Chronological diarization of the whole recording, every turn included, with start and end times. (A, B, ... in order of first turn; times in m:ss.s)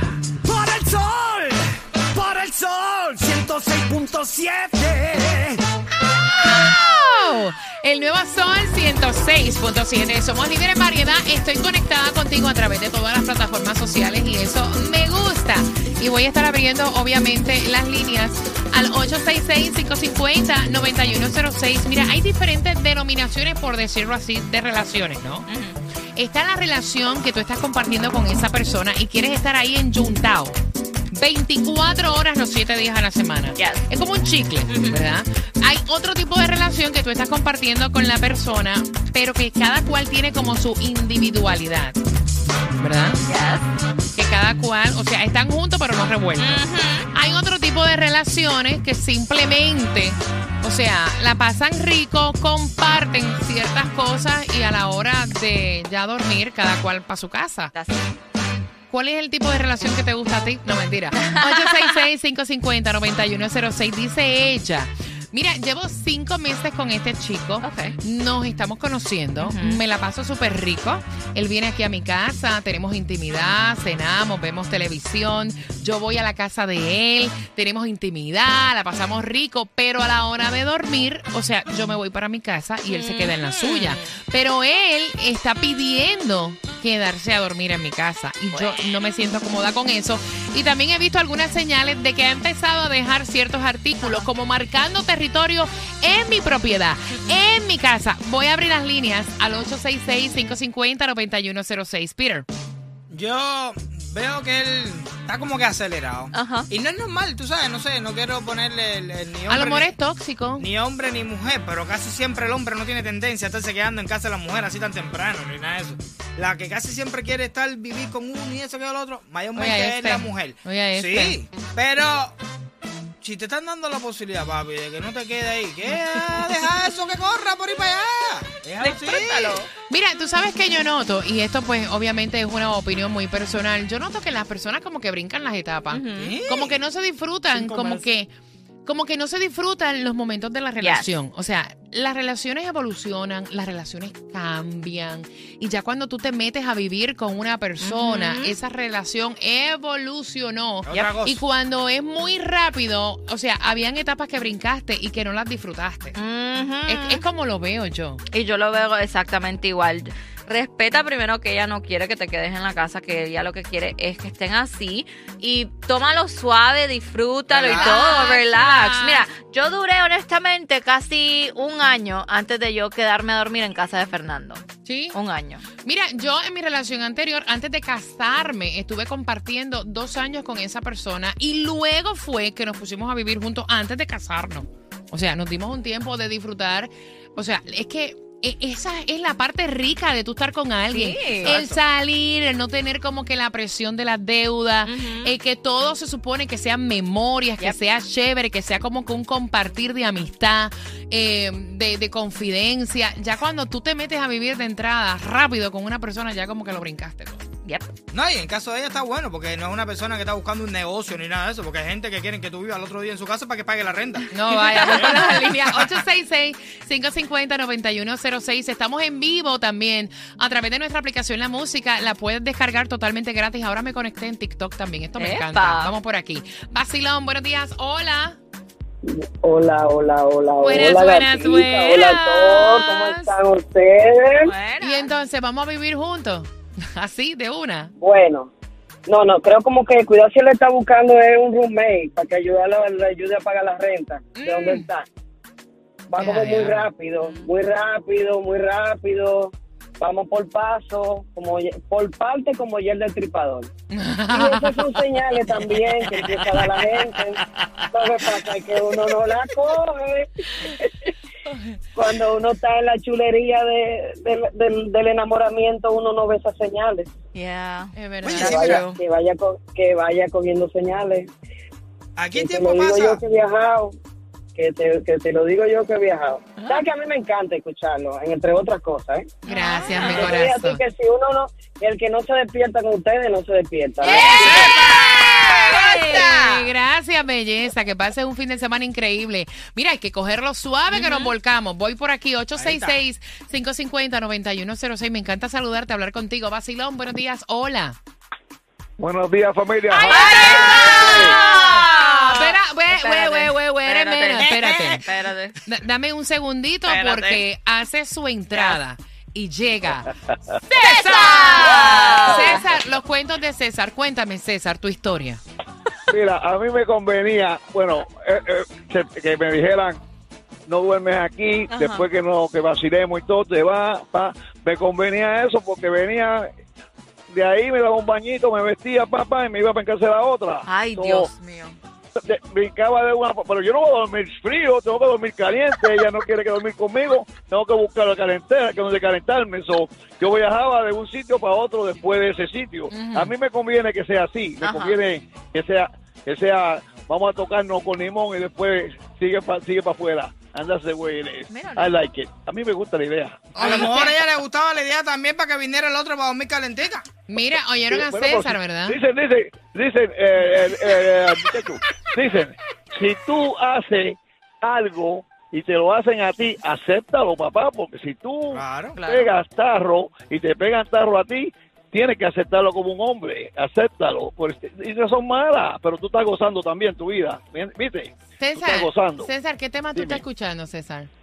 0:00.5-0:01.5 A
0:02.2-0:05.0 A
0:06.3-0:25.5 B
0:25.5-0:25.8 C
0:26.2-0:30.6 B
0:31.1-0:42.0 B
0:33.6-0:33.8 C
0:34.7-0:35.0 C
0:42.8-0:43.2 B
0:43.2-0:43.7 C
0:44.2-0:46.6 B
0:46.4-0:47.1 C
0:47.1-0:57.7 B
0:57.7-0:58.1 C
0:58.9-1:42.5 B
1:07.6-1:08.0 C
1:09.4-1:09.8 C
1:22.9-1:24.1 C
1:28.5-1:28.9 C
1:34.0-1:34.3 C
1:43.1-1:49.9 D
1:46.3-1:46.7 C
1:49.5-1:50.7 B
1:50.6-2:02.4 D
1:59.6-2:01.4 B
2:03.2-2:09.6 D
2:08.8-2:09.7 C
2:09.9-2:18.3 B
2:15.9-2:16.3 C
2:16.2-2:16.8 D
2:17.5-2:18.1 D
2:18.8-2:36.2 B
2:20.8-2:21.1 C
2:27.8-2:28.6 C
2:30.8-2:31.4 D
2:36.2-2:37.2 C
2:36.9-2:38.2 B
2:38.3-2:55.6 C
2:47.7-2:49.2 B
2:54.8-2:55.2 B
2:55.8-3:27.5 B
3:10.9-3:11.6 C
3:11.4-3:11.8 D
3:14.8-3:15.3 C
3:27.6-3:27.9 C
3:28.1-3:34.3 D
3:34.3-3:48.4 B
3:34.4-3:35.6 C
3:45.2-3:45.9 C
3:49.0-3:54.5 E
3:50.6-3:53.4 B
3:54.4-3:55.1 C
3:54.8-3:57.9 B
3:58.0-3:58.5 E
3:59.1-4:05.1 E
4:04.4-4:04.9 B
4:06.1-4:13.7 E
4:06.2-4:06.9 B
4:07.2-4:07.5 C
4:13.9-4:14.8 B
4:14.3-4:21.1 E
4:22.0-4:27.1 E
4:27.3-4:29.0 C
4:28.0-4:28.6 B
4:28.3-4:28.8 D
4:28.3-4:31.3 E
4:32.2-4:33.2 D
4:32.3-4:34.0 E
4:34.6-4:44.7 E
4:36.6-4:36.8 C
4:39.4-4:40.4 C
4:39.5-4:40.8 B
4:44.0-4:46.7 C
4:44.4-4:45.6 D
4:45.6-4:58.0 B
4:50.9-4:51.3 C
4:52.6-4:53.0 D
4:59.0-5:00.2 F
4:59.9-5:05.0 B
5:00.0-5:05.6 C
5:00.8-5:01.3 F
5:04.4-5:05.0 D
5:05.7-5:10.1 B
5:06.9-5:07.4 C
5:08.5-5:08.8 C
5:10.7-5:15.4 B
5:10.8-5:12.6 C
5:16.1-5:20.0 F
5:20.7-5:26.5 F
5:21.7-5:22.0 C
5:27.3-5:31.3 F
5:30.7-5:31.8 C
5:32.2-5:53.7 F
5:42.9-5:43.4 B
5:44.6-5:45.0 C
5:51.5-5:52.0 C
5:53.6-5:54.2 B
5:53.6-5:57.1 D
5:57.3-5:59.0 B
5:58.0-6:08.5 F
6:08.5-6:09.0 D
6:08.9-6:09.3 C
6:09.1-6:18.1 F
6:18.4-6:21.1 B
6:18.6-6:19.3 F